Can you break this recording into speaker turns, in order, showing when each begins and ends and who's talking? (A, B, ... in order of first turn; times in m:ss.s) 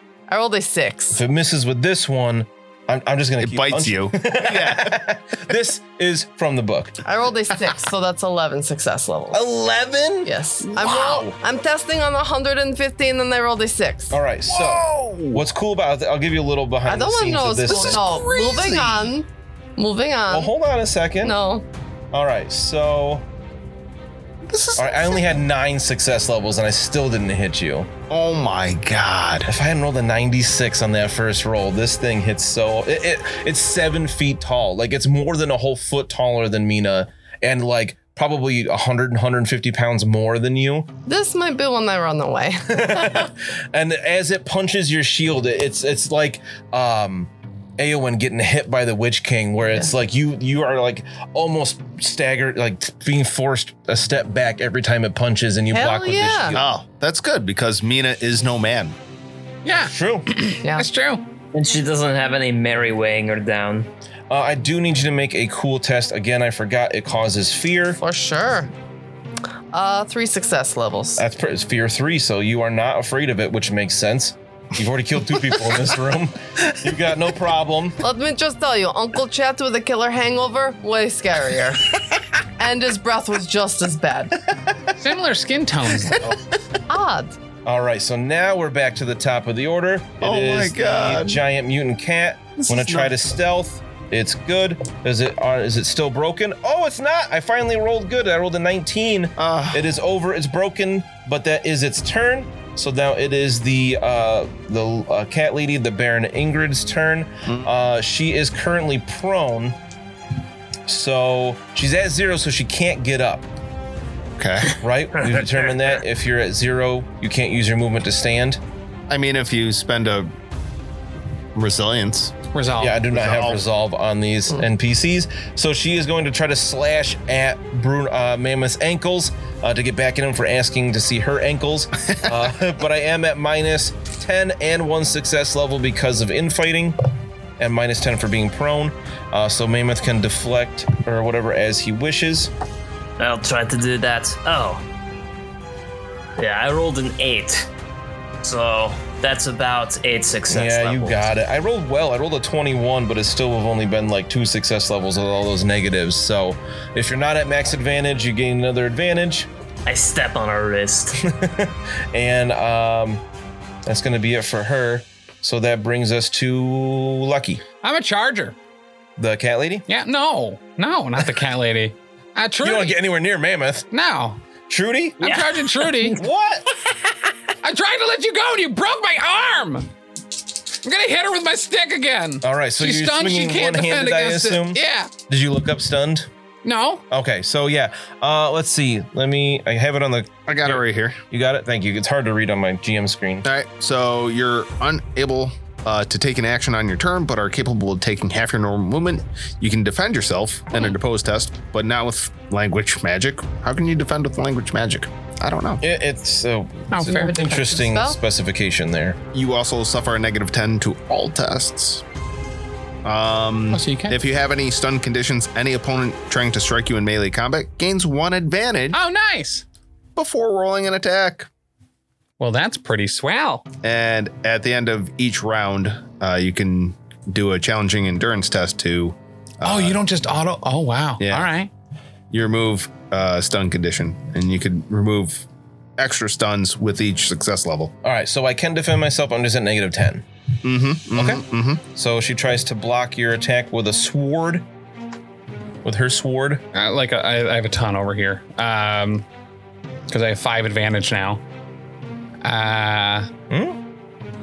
0:00.3-0:01.2 A
0:01.1-0:07.0 B
0:03.4-0:05.1 C
0:07.0-0:09.4 A
0:09.3-0:10.3 B
0:10.2-0:14.2 A
0:10.6-0:11.3 C
0:14.1-0:18.1 B
0:14.5-0:15.4 C
0:16.9-0:20.5 A
0:17.7-0:19.1 C
0:20.3-0:21.4 B
0:21.2-0:21.6 A
0:22.1-0:23.3 B
0:24.4-0:25.3 C
0:24.8-0:27.9 B
0:28.1-0:29.5 C
0:29.5-0:40.9 B
0:41.1-0:43.3 A
0:42.7-0:56.7 B
0:55.7-0:56.6 A
0:56.6-0:59.0 C
0:59.6-1:01.2 D
0:59.8-1:00.3 B
1:00.6-1:00.9 A
1:01.5-1:03.9 E
1:04.3-1:08.0 B
1:08.0-1:08.7 A
1:09.7-1:11.2 A
1:11.2-1:18.0 B
1:18.0-1:22.0 A
1:22.6-1:24.4 A
1:25.0-1:26.3 D
1:26.9-1:27.4 A
1:27.6-1:49.8 B
1:30.2-1:31.4 C
1:32.6-1:33.1 C
1:39.4-1:39.8 C
1:50.9-1:53.4 B
1:54.4-1:54.8 C
1:54.8-1:58.6 B
1:59.1-2:00.3 C
2:01.6-2:02.4 C
2:02.5-2:03.0 D
2:02.8-2:17.0 B
2:03.1-2:03.6 C
2:12.0-2:12.3 C
2:17.6-2:22.5 B
2:23.2-2:24.8 E
2:26.4-2:27.7 E
2:28.4-2:31.3 E
2:30.5-2:39.5 B
2:39.9-2:41.2 E
2:41.2-2:43.2 B
2:43.9-2:47.6 B
2:47.8-2:48.6 D
2:49.2-2:49.8 B
2:49.9-2:53.0 D
2:52.6-2:53.9 B
2:53.9-2:54.4 D
2:54.7-2:55.4 B
2:55.2-2:56.2 D
2:55.2-2:56.2 E
2:56.1-2:56.6 B
2:57.6-2:59.9 D
3:00.8-3:05.1 D
3:02.4-3:06.3 B
3:06.6-3:07.0 D
3:07.1-3:13.5 B
3:10.5-3:11.2 C
3:13.4-3:25.8 C
3:25.8-3:29.2 B
3:26.9-3:27.3 D
3:27.0-3:28.2 A
3:29.3-3:32.0 C
3:33.0-3:39.0 C
3:33.7-3:34.2 D
3:38.9-3:39.6 D
3:40.2-3:41.5 C
3:42.4-3:43.6 D
3:43.8-3:50.0 C
3:49.6-3:51.7 D
3:51.2-3:51.5 C
3:52.3-3:55.4 C
3:56.0-3:57.9 C
3:58.0-4:00.3 B
4:00.6-4:01.8 C
4:01.2-4:04.7 B
4:05.8-4:06.6 B
4:06.7-4:09.3 D
4:10.1-4:11.4 D
4:12.4-4:13.3 D
4:13.5-4:13.8 B